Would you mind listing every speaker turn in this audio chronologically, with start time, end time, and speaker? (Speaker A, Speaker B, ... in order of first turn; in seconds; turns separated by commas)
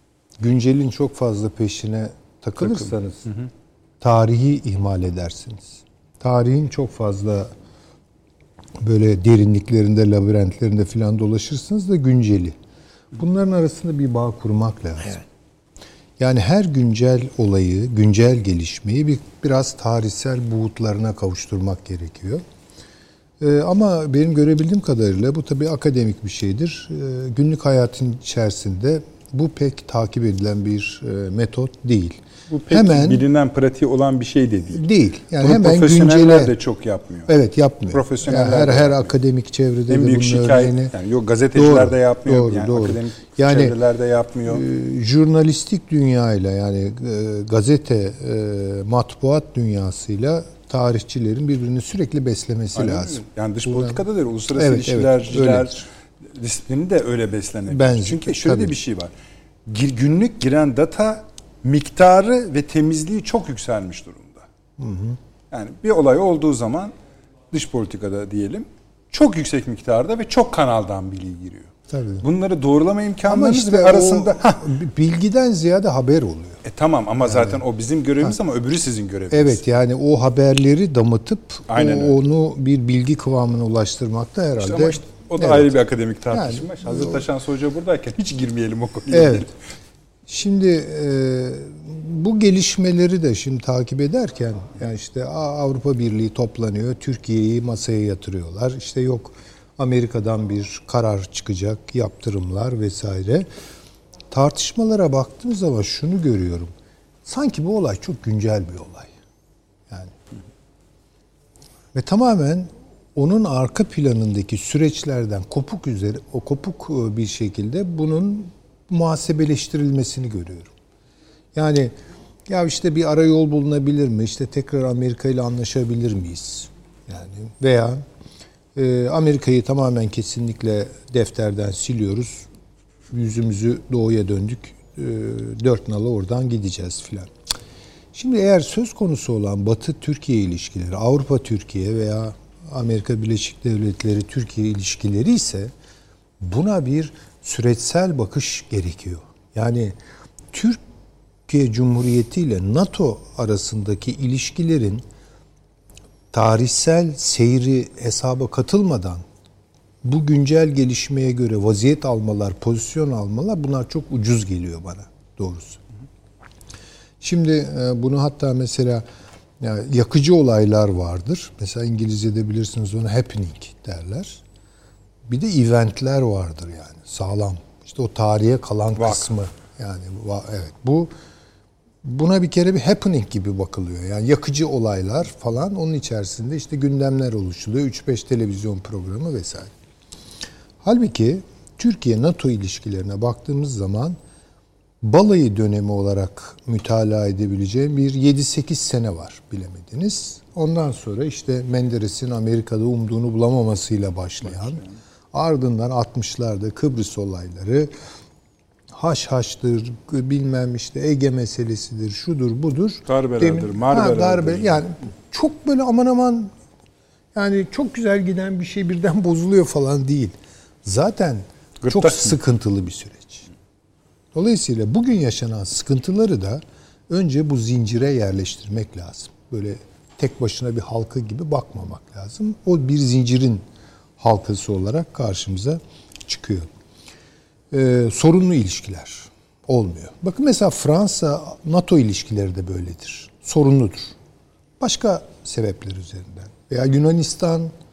Speaker A: 0.4-3.2, Speaker B: 2.6-3.5, Speaker A: 4.0-7.5, Speaker A: 8.8-12.6, Speaker A: 13.2-15.2, Speaker A: 16.2-22.4, Speaker A: 23.4-33.2, Speaker B: 32.5-34.8, Speaker A: 34.7-36.5, Speaker B: 35.4-37.3, Speaker A: 37.3-40.9, Speaker B: 37.9-39.1, Speaker B: 39.9-44.6, Speaker A: 41.5-43.8, Speaker A: 44.5-54.0, Speaker B: 52.8-59.1, Speaker A: 54.5-55.8, Speaker A: 57.7-58.8, Speaker B: 59.7-64.5, Speaker A: 64.8-65.2, Speaker B: 65.5-66.9, Speaker B: 67.5-74.7, Speaker A: 71.9-72.3, Speaker A: 73.3-76.6, Speaker B: 76.7-79.6, Speaker A: 77.3-77.6, Speaker A: 79.3-85.7, Speaker B: 81.7-82.2, Speaker B: 84.6-89.5, Speaker A: 86.3-87.3, Speaker A: 89.1-89.5, Speaker A: 90.3-103.5, Speaker A: 104.3-106.7, Speaker A: 107.2-109.1, Speaker A: 111.9-120.7, Speaker A: 121.5-121.9, Speaker A: 122.5-128.0, Speaker A: 128.8-132.5, Speaker A: 133.1-137.3, Speaker A: 138.2-145.7, Speaker A: 146.4-150.0, Speaker A: 150.5-150.8, Speaker A: 151.5-155.0, Speaker A: 156.3-159.2, Speaker A: 160.0-165.8, Speaker A: 167.2-169.1, Speaker A: 169.6-174.4, Speaker A: 175.3-181.1, Speaker B: 179.0-179.3, Speaker A: 182.0-189.7, Speaker A: 190.8-194.2, Speaker A: 195.0-207.9, Speaker B: 204.5-204.9, Speaker A: 208.9-216.5, Speaker B: 213.1-214.8, Speaker A: 217.3-223.5, Speaker B: 221.8-222.3, Speaker A: 224.3-233.6, Speaker A: 234.2-236.7, Speaker A: 237.7-244.1, Speaker A: 244.8-247.7